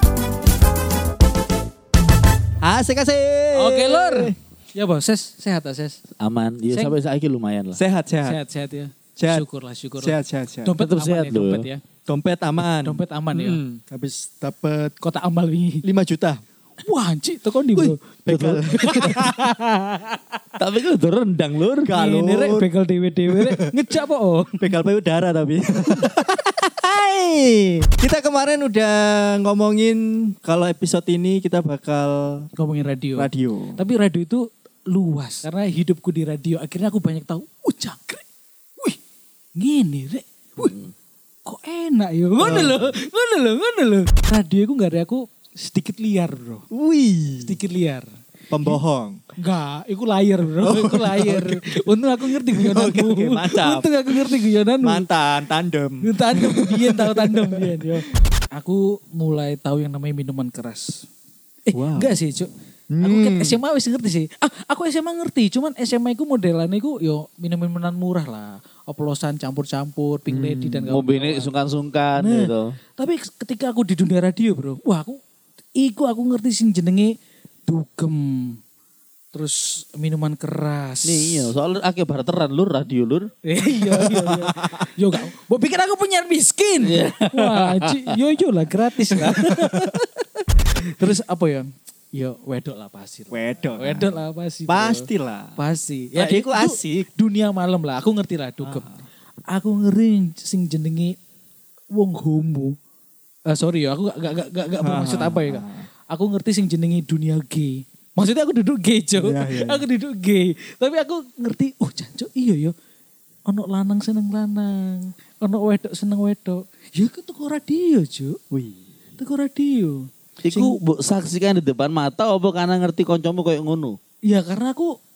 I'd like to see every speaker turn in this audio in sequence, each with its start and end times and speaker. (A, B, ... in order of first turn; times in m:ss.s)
0:02.6-0:04.3 A
0:03.5-0:06.0 B
0:06.2-0:07.8 C
0:06.7-0:07.0 B
0:07.7-0:08.4 A
0:08.2-0:11.8 B
0:09.2-0:09.4 A
0:10.0-0:10.7 A
0:10.8-0:11.7 C
0:12.0-0:14.9 A
0:12.8-0:13.6 B
0:15.0-0:15.8 B
0:15.8-0:16.4 A
0:16.9-0:18.0 B
0:17.7-0:19.5 A
0:18.3-0:18.7 C
0:18.7-0:20.2 B
0:20.6-0:21.9 C
0:21.8-0:22.6 A
0:21.9-0:24.7 B
0:23.3-0:23.7 A
0:24.6-0:32.5 A
0:32.6-0:38.2 B
0:33.2-0:33.8 A
0:39.6-0:40.8 B
0:41.4-0:46.6 B
0:42.4-0:42.8 A
0:46.7-0:47.5 A
0:47.4-0:48.1 B
0:48.5-0:49.2 A
0:49.4-0:55.1 B
0:50.6-0:51.6 A
0:52.3-0:57.8 A
0:56.0-1:01.0 B
1:01.7-1:02.5 B
1:01.7-1:02.1 A
1:02.9-1:03.6 A
1:03.0-1:11.5 B
1:10.3-1:10.9 A
1:10.9-1:12.7 C
1:12.2-1:15.2 B
1:15.8-1:17.1 B
1:17.7-1:18.6 B
1:19.3-1:21.5 B
1:21.0-1:23.3 C
1:23.5-1:30.0 B
1:23.9-1:24.8 A
1:26.8-1:28.0 C
1:29.2-1:30.0 A
1:30.7-1:35.0 B
1:33.3-1:34.2 A
1:34.7-1:35.6 A
1:35.6-1:39.0 B
1:36.2-1:37.1 A
1:38.6-1:38.9 A
1:39.5-1:41.2 B
1:41.9-1:42.7 B
1:43.5-1:52.7 B
1:44.8-1:45.8 A
1:49.2-1:49.8 A
1:53.5-1:58.4 B
1:58.5-1:58.8 A
1:59.2-2:00.8 B
2:00.4-2:04.0 C
2:04.3-2:04.9 B